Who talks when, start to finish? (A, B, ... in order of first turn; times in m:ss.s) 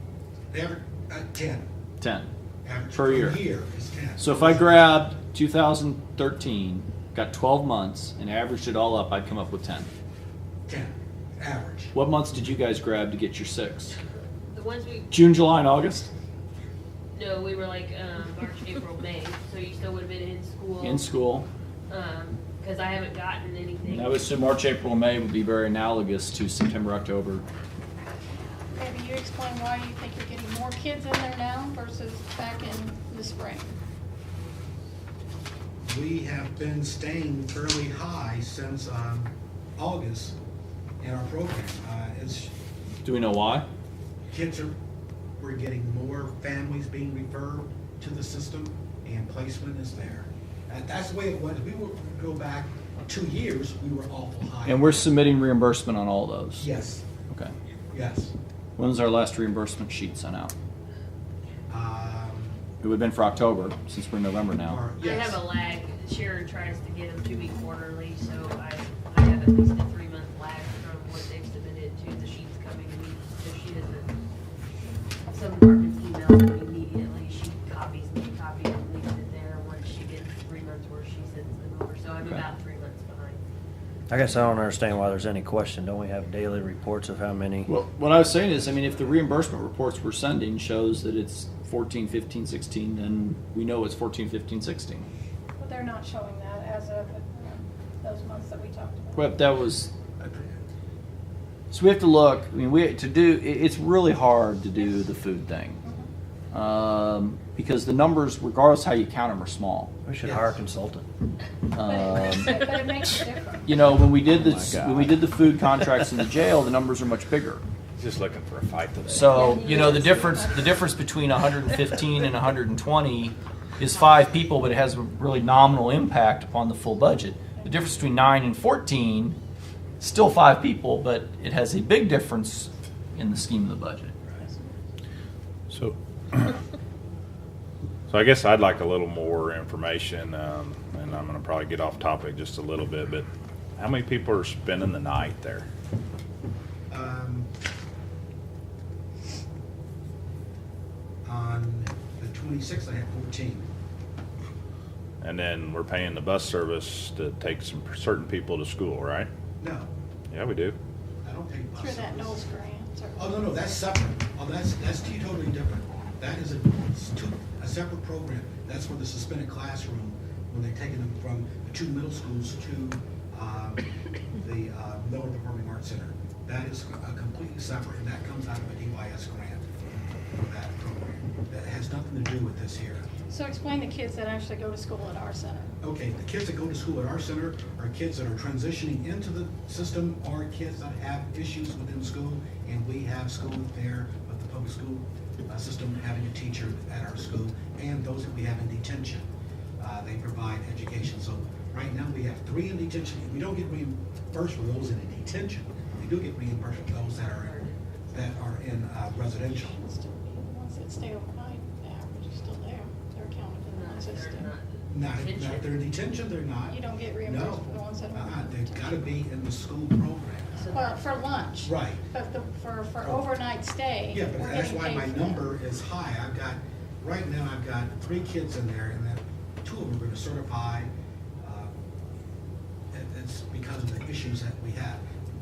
0:00.5-0:01.6 A
0:02.0-0:02.3 B
0:02.6-0:05.0 A
0:02.9-0:03.4 B
0:04.2-0:09.9 B
0:10.7-0:11.9 A
0:11.9-0:14.0 B
0:14.5-0:15.1 C
0:15.1-0:16.1 B
0:17.1-0:21.1 C
0:20.8-0:21.5 B
0:21.9-0:24.2 C
0:23.9-0:27.4 B
0:28.7-0:33.7 D
0:35.9-0:40.4 A
0:41.0-0:42.5 A
0:43.0-0:43.7 B
0:44.3-0:44.7 A
0:45.4-0:55.1 A
0:54.6-0:56.7 B
0:56.6-0:57.0 A
0:57.9-0:58.3 A
0:58.8-1:00.5 B
1:01.7-1:02.6 A
1:02.8-1:04.8 B
1:04.6-1:05.4 A
1:05.0-1:14.1 C
1:15.3-1:23.4 C
1:24.1-1:27.7 E
1:27.6-1:35.1 B
1:35.6-1:39.5 D
1:39.1-1:40.3 B
1:41.7-1:45.8 B
1:45.8-1:46.1 D
1:46.5-1:49.9 B
1:50.0-1:51.0 E
1:50.2-1:50.5 A
1:51.7-1:52.6 B
1:51.8-1:53.9 D
1:53.6-1:57.6 B
1:54.3-1:55.2 E
1:58.0-1:59.6 F
1:59.1-2:09.4 B
1:59.3-2:00.6 C
1:59.5-2:00.6 D
2:07.5-2:07.9 D
2:10.0-2:14.2 B
2:14.3-2:14.7 D
2:15.7-2:16.6 F
2:18.1-2:23.2 F
2:23.8-2:25.7 F
2:26.9-2:27.5 A
2:31.2-2:33.7 A
2:35.2-2:39.3 F
2:39.6-2:39.9 A
2:40.3-2:40.8 F
2:41.2-2:42.4 A
2:41.8-2:43.5 D
2:43.2-3:03.0 A
3:03.3-3:05.7 D
3:05.8-3:19.3 A
3:19.8-3:27.6 A
3:27.1-3:28.5 C
3:28.1-3:29.8 A
3:29.3-3:34.5 D
3:33.7-3:35.8 C
3:34.9-3:40.7 A
3:36.7-3:39.1 D
3:40.6-3:41.0 C
3:40.7-3:45.6 D
3:41.6-3:42.0 A
3:43.0-3:43.3 A
3:44.1-3:50.9 A
3:51.4-3:51.7 A
3:52.9-3:55.0 A